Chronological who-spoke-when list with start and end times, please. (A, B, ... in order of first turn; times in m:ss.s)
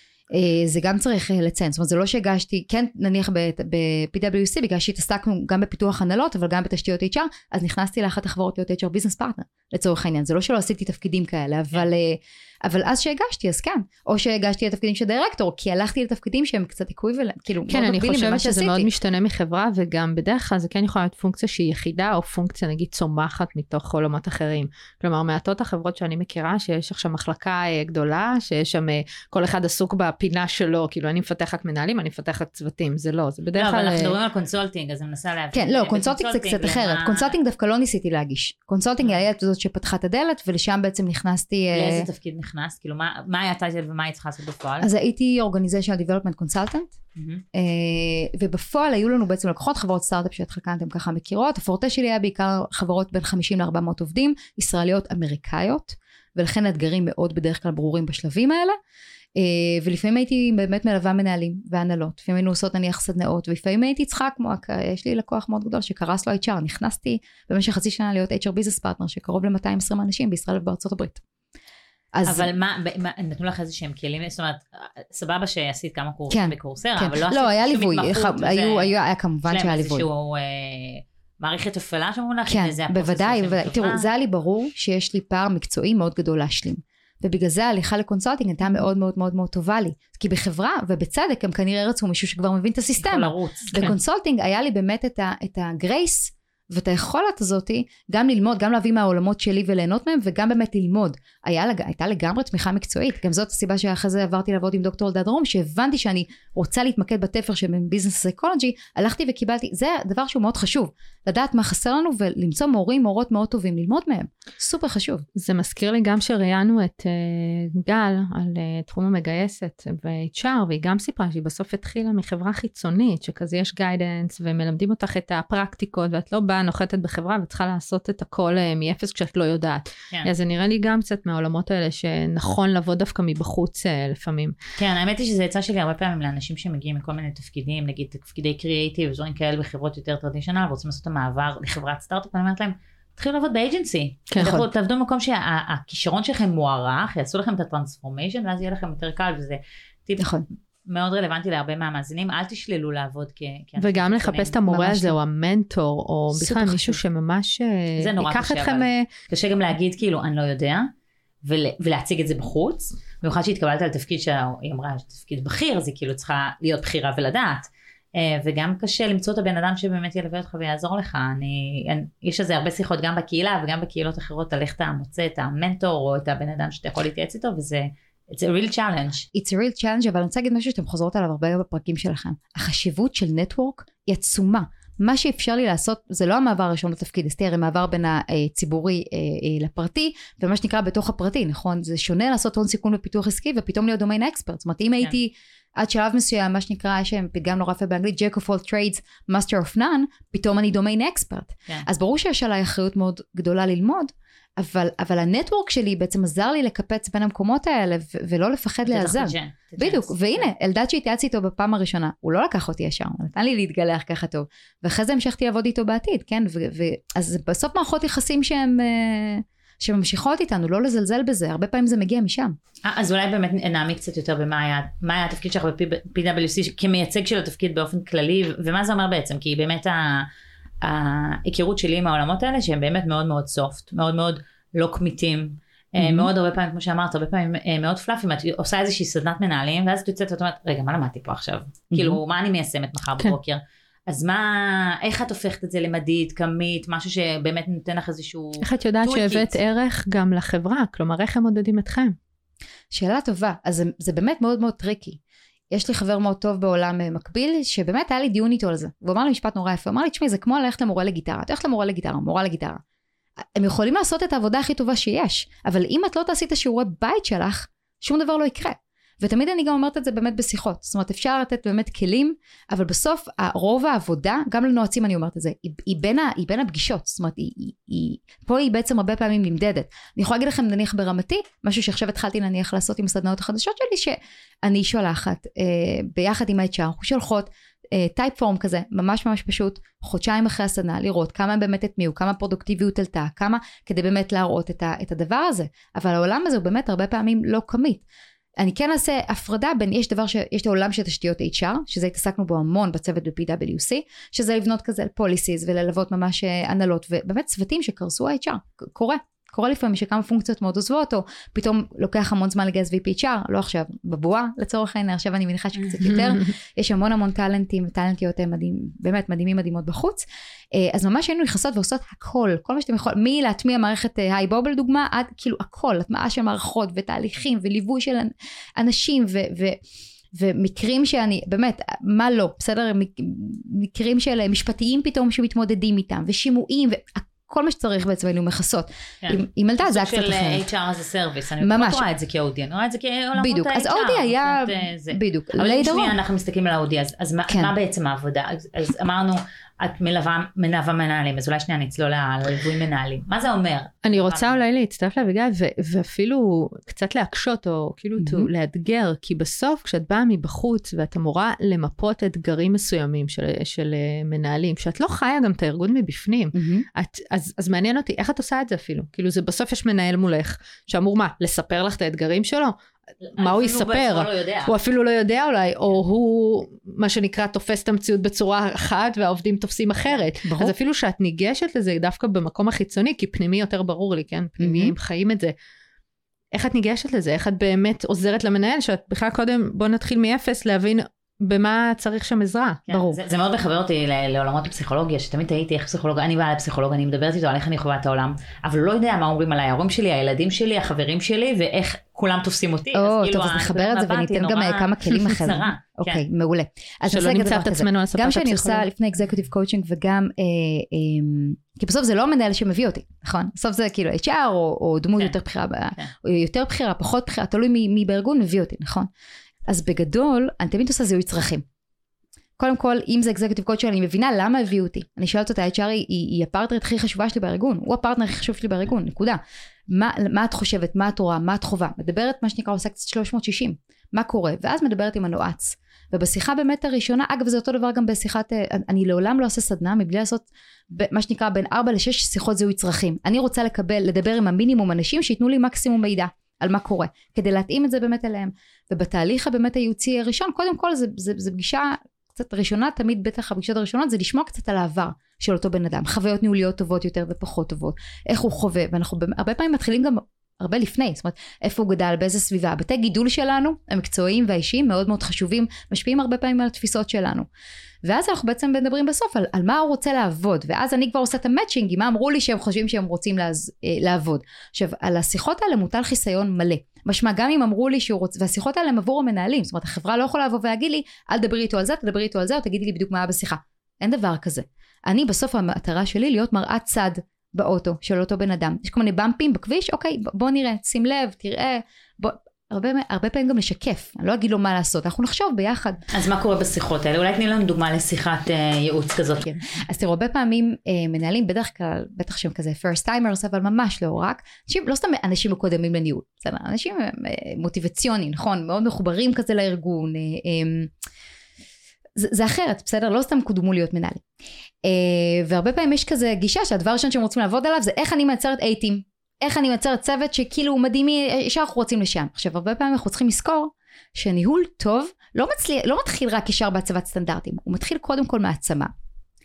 0:00.3-0:18.9 A
0:17.7-0:34.2 B
0:33.5-0:37.3 C
0:35.5-0:42.0 A
0:41.7-0:44.9 C
0:44.8-0:46.9 A
0:47.2-0:47.4 C
0:47.5-0:58.8 A
0:59.4-1:11.2 A
1:12.1-1:12.5 A
1:12.3-1:18.9 C
1:16.3-1:20.0 A
1:19.5-1:24.0 C
1:22.5-1:55.2 A
1:33.0-1:33.8 C
1:55.3-2:14.6 B
2:14.8-2:34.6 C
2:24.3-2:24.6 B
2:24.4-2:24.7 A
2:30.2-2:30.4 A
2:33.8-2:39.1 B
2:34.7-2:35.1 A
2:36.3-2:37.0 A
2:38.0-2:40.9 C
2:41.4-2:59.3 C
2:59.3-3:42.6 A
3:28.9-3:30.5 C
3:42.8-3:50.3 C
3:50.8-4:09.5 C
3:56.0-3:56.3 A
4:01.9-4:02.2 A
4:08.6-4:12.2 B
4:12.9-4:15.2 A
4:15.7-4:22.8 A
4:23.6-4:58.0 A
4:58.6-5:29.8 A
5:30.3-5:40.6 A
5:39.2-5:54.6 C
5:41.6-5:42.0 A
5:43.4-5:46.1 A
5:54.0-6:12.7 B
5:58.2-5:58.5 A
6:06.5-6:06.8 A
6:13.2-6:14.7 C
6:13.4-6:25.5 B
6:20.4-6:20.7 A
6:24.6-6:24.9 A
6:26.5-6:32.8 B
6:32.9-6:46.2 C
6:32.9-6:33.2 A
6:42.9-6:59.1 A
6:47.1-6:48.8 B
6:59.7-7:01.6 A
7:02.6-7:47.4 A
7:48.0-8:16.0 A
8:16.1-8:19.6 C
8:19.7-8:30.9 A
8:32.2-8:34.2 A
8:34.8-8:48.9 A